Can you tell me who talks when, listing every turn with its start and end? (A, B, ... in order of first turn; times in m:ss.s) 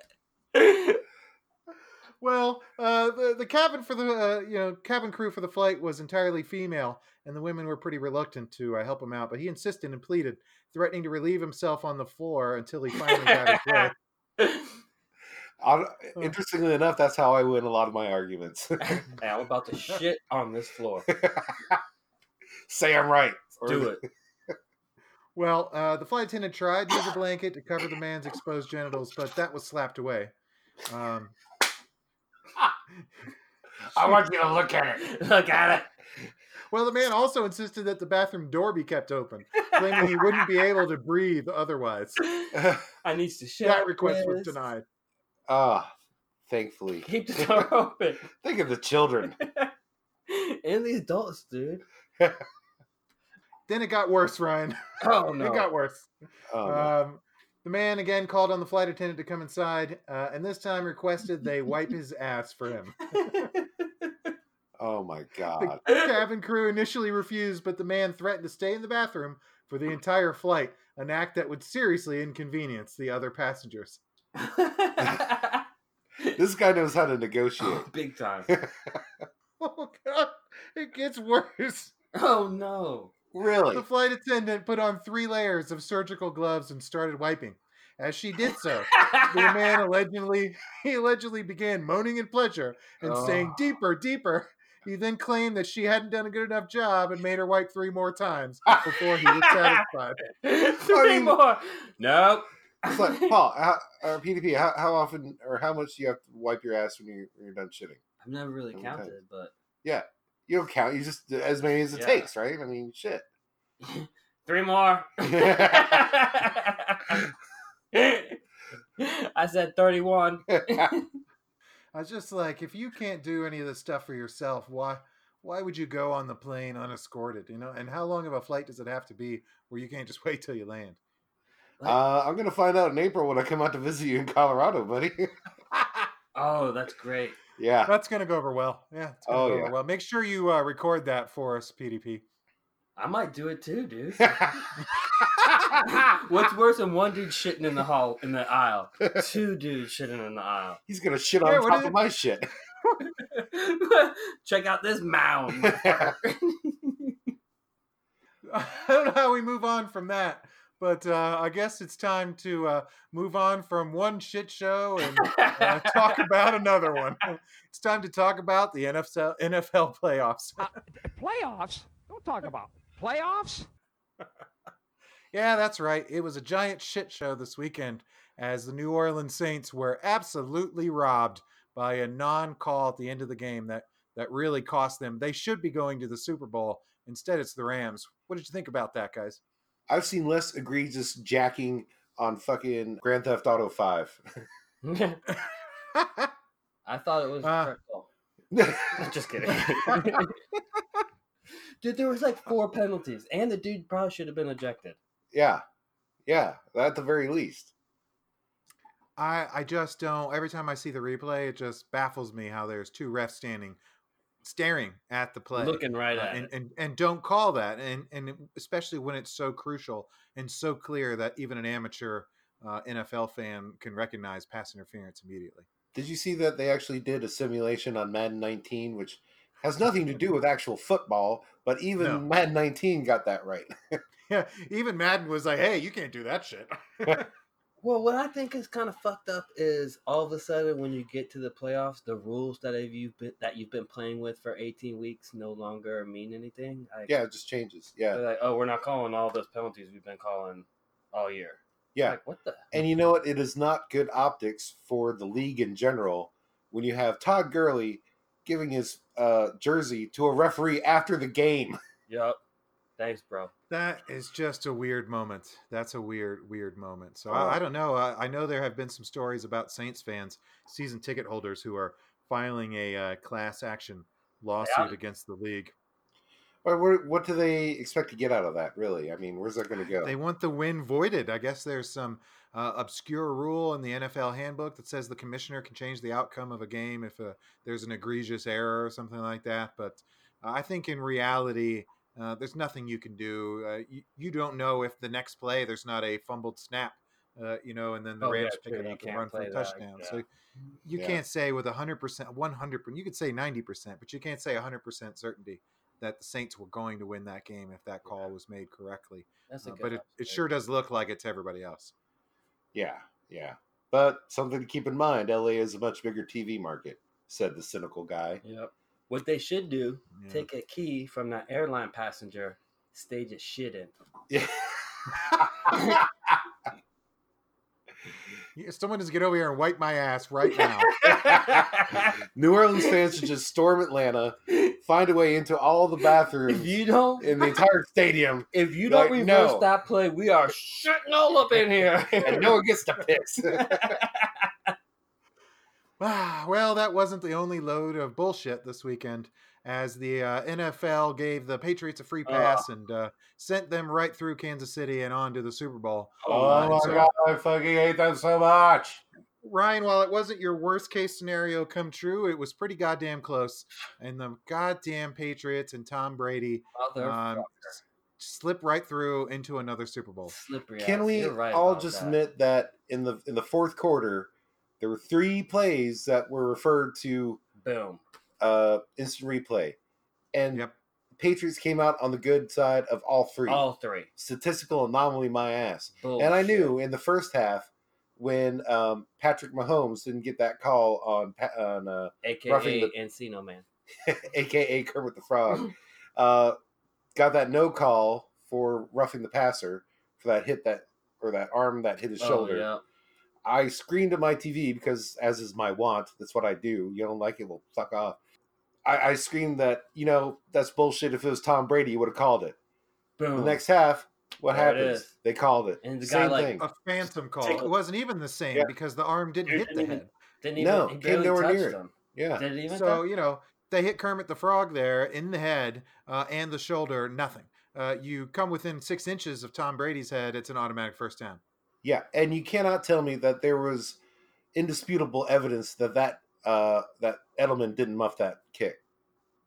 0:00.5-0:01.0 A
0:02.2-0:13.9 B
0:13.0-0:14.7 A
0:15.6-0:19.0 C
0:18.8-0:21.1 A
0:21.1-0:21.8 C
0:22.7-0:24.0 C
0:23.6-0:24.0 A
0:25.3-0:30.3 B
0:30.9-0:31.3 B
0:33.9-0:35.0 C
0:35.0-0:35.9 A
0:36.7-0:42.2 B
0:39.6-0:40.3 A
0:42.2-0:44.6 A
0:42.5-0:42.8 C
0:43.6-0:44.8 B
0:45.5-0:45.9 C
0:46.5-0:47.7 C
0:47.0-0:48.2 A
0:48.3-0:49.4 C
0:49.4-0:49.7 A
0:50.3-0:51.8 A
0:53.7-0:56.1 B
0:55.0-0:55.7 A
0:56.5-0:56.9 C
0:56.6-1:03.5 B
1:03.1-1:04.3 A
1:04.8-1:05.8 C
1:05.6-1:14.0 B
1:14.4-1:15.6 A
1:16.4-1:17.9 C
1:17.6-1:18.5 A
1:18.5-1:19.0 C
1:19.6-1:21.9 B
1:22.1-1:23.1 A
1:23.3-1:23.8 C
1:23.7-1:40.2 B
1:28.9-1:29.7 A
1:33.0-1:33.6 A
1:39.2-1:39.8 A
1:40.4-1:43.3 A
1:40.8-1:41.4 C
1:42.9-1:48.0 C
1:48.2-1:49.5 A
1:48.7-1:49.1 C
1:49.8-1:53.2 C
1:51.9-1:52.3 A
1:53.8-1:57.3 A
1:55.3-1:56.0 C
1:57.9-1:58.4 A
1:59.0-2:01.1 A
2:01.9-2:11.0 B
2:11.8-2:16.0 C
2:16.3-2:17.4 A
2:17.6-2:17.9 C
2:17.8-2:22.2 B
2:19.3-2:19.7 C
2:23.0-2:24.7 A
2:24.2-2:24.5 C
2:25.7-2:30.8 A
2:30.9-2:32.4 C
2:31.4-2:32.0 B
2:33.0-2:37.3 A
2:35.6-2:36.1 C
2:38.4-2:50.7 B
2:45.2-2:46.2 A
2:51.1-2:53.6 D
2:55.3-3:09.4 B
3:09.9-3:14.4 C
3:14.8-3:15.2 A
3:15.9-3:16.3 B
3:16.8-3:18.1 A
3:17.4-3:17.7 B
3:18.5-3:19.1 C
3:18.9-3:20.3 A
3:21.8-3:25.0 A
3:25.3-3:25.6 C
3:26.2-3:27.7 C
3:29.2-3:33.8 B
3:34.4-3:45.7 B
3:35.5-3:36.5 A
3:45.9-3:53.7 C
3:52.0-3:52.2 B
3:54.3-3:57.3 B
3:57.8-4:07.1 A
4:07.1-4:08.2 C
4:08.1-4:12.7 A
4:12.7-4:21.8 C
4:22.1-4:22.4 A
4:23.0-4:23.5 A
4:23.7-4:35.7 B
4:27.3-4:27.6 C
4:34.6-4:35.0 A
4:36.6-4:40.1 C
4:39.9-5:00.2 B
4:58.2-5:00.2 A
5:00.8-5:11.9 B
5:00.9-5:01.2 C
5:09.5-5:10.4 A
5:12.7-5:18.4 C
5:18.4-5:23.9 A
5:20.2-5:20.5 B
5:24.3-5:26.1 C
5:25.7-5:26.0 A
5:28.5-5:31.0 B
5:30.8-5:32.2 A
5:31.1-5:31.8 C
5:32.3-5:39.6 C
5:34.5-5:34.7 A
5:36.5-5:37.6 A
5:38.5-5:42.5 A
5:42.1-5:43.9 C
5:43.4-5:44.7 A
5:46.0-5:57.1 B
5:52.2-5:52.6 A
5:56.2-5:57.0 A
5:56.3-5:59.0 C
5:59.4-6:10.3 B
6:06.7-6:07.8 A
6:10.2-6:12.2 A
6:10.8-6:17.4 C
6:17.6-6:18.0 A
6:18.4-6:19.8 C
6:20.3-6:20.6 C
6:21.2-6:32.9 C
6:23.5-6:24.1 A
6:26.0-6:26.8 A
6:32.2-6:33.6 A
6:34.0-6:36.6 C
6:37.1-6:42.6 C
6:42.2-6:42.8 A
6:43.4-6:48.2 C
6:48.8-6:52.6 C
6:53.2-6:53.6 A
6:53.3-6:56.6 C
6:54.5-6:55.1 A
6:55.8-6:56.6 A
6:56.6-7:00.1 B
6:57.4-6:57.7 A
6:59.4-7:03.0 A
7:00.6-7:02.4 C
7:02.7-7:11.4 B
7:11.8-7:14.0 C
7:14.5-7:18.8 C